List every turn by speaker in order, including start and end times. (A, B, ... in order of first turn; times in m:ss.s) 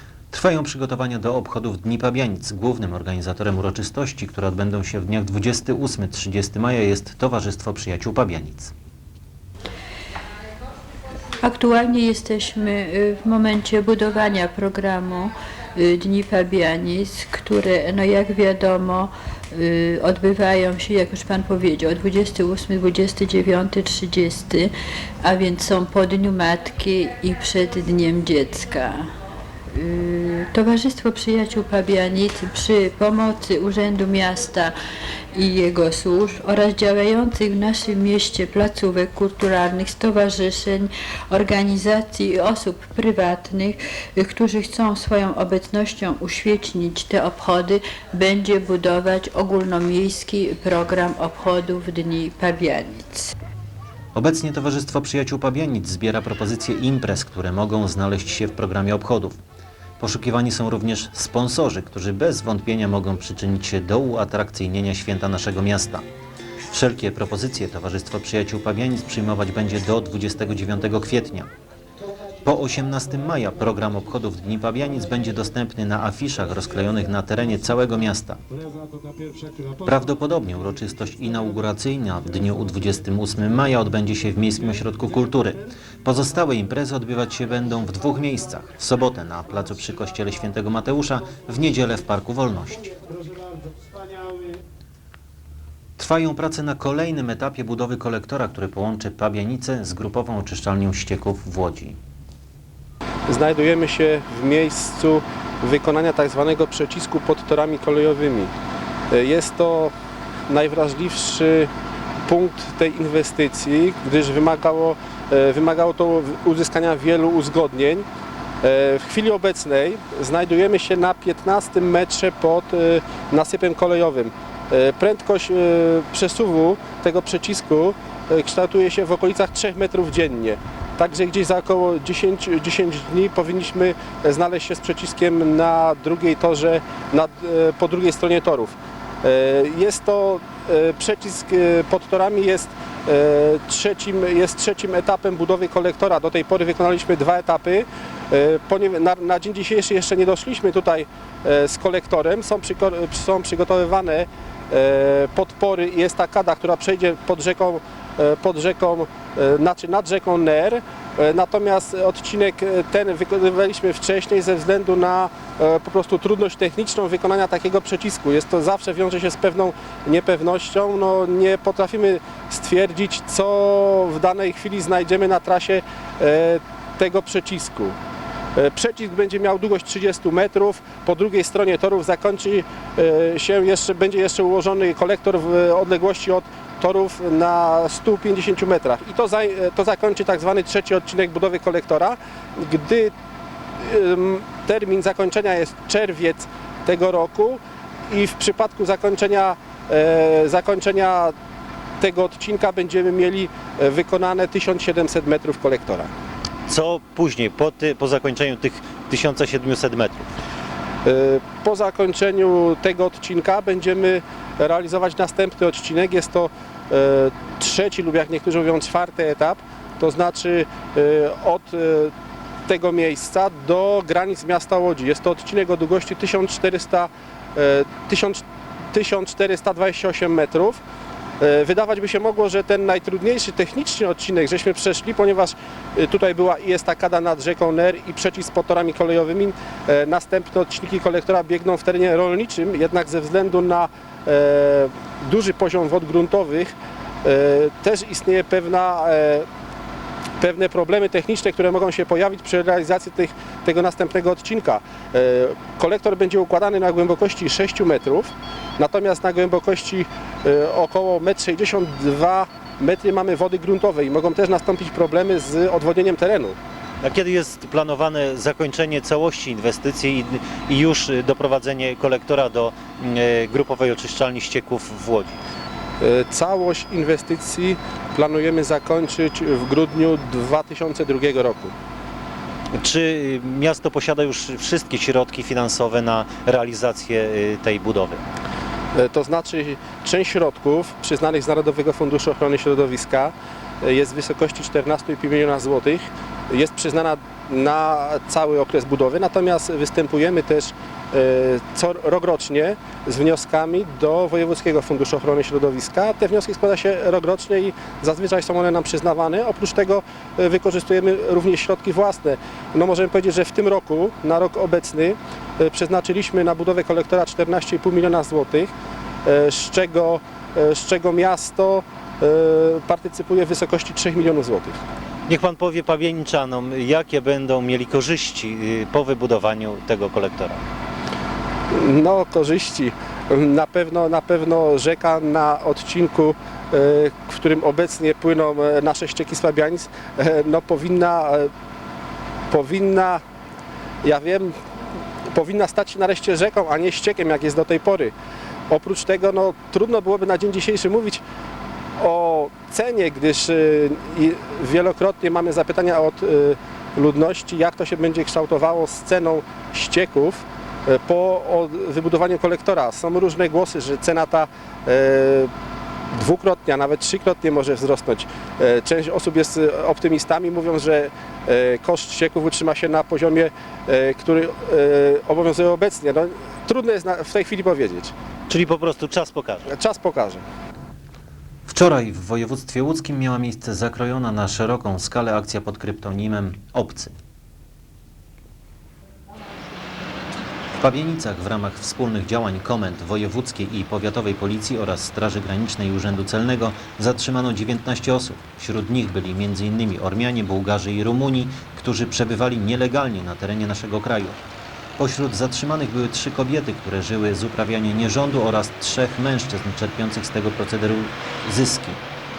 0:00.3-0:08.7 A
0:11.4-0:24.7 B
0:25.2-0:29.1 B
0:29.7-0:34.7 B
0:35.3-0:53.3 B
0:54.1-0:59.4 A
1:00.0-1:06.0 A
1:06.7-1:11.5 A
1:12.4-1:18.4 A
1:19.8-1:33.0 A
1:36.0-1:42.0 A
1:43.3-1:48.5 C
1:49.1-1:49.9 C
1:50.5-1:51.7 C
1:52.2-1:58.0 C
1:58.6-2:57.9 C
2:58.6-3:13.1 C
3:13.8-3:21.3 C
3:22.0-3:26.1 C
3:26.7-3:30.3 A
3:31.0-3:42.1 C
3:42.7-3:50.8 C
3:51.4-4:09.4 C
4:10.4-4:26.6 C
4:27.0-4:35.4 A
4:36.0-4:41.7 C
4:42.7-4:48.2 A
4:48.9-5:18.7 C
5:19.2-5:24.8 C
5:25.3-5:30.6 A
5:31.7-5:41.5 C
5:42.5-5:43.2 C
5:44.0-5:44.5 C
5:45.3-5:48.1 C
5:48.7-5:51.2 C
5:52.0-6:05.5 C
6:06.1-6:18.1 C
6:18.5-6:19.7 A
6:19.7-6:20.4 C
6:21.7-6:27.1 A
6:30.8-6:44.4 A
6:45.0-6:52.0 A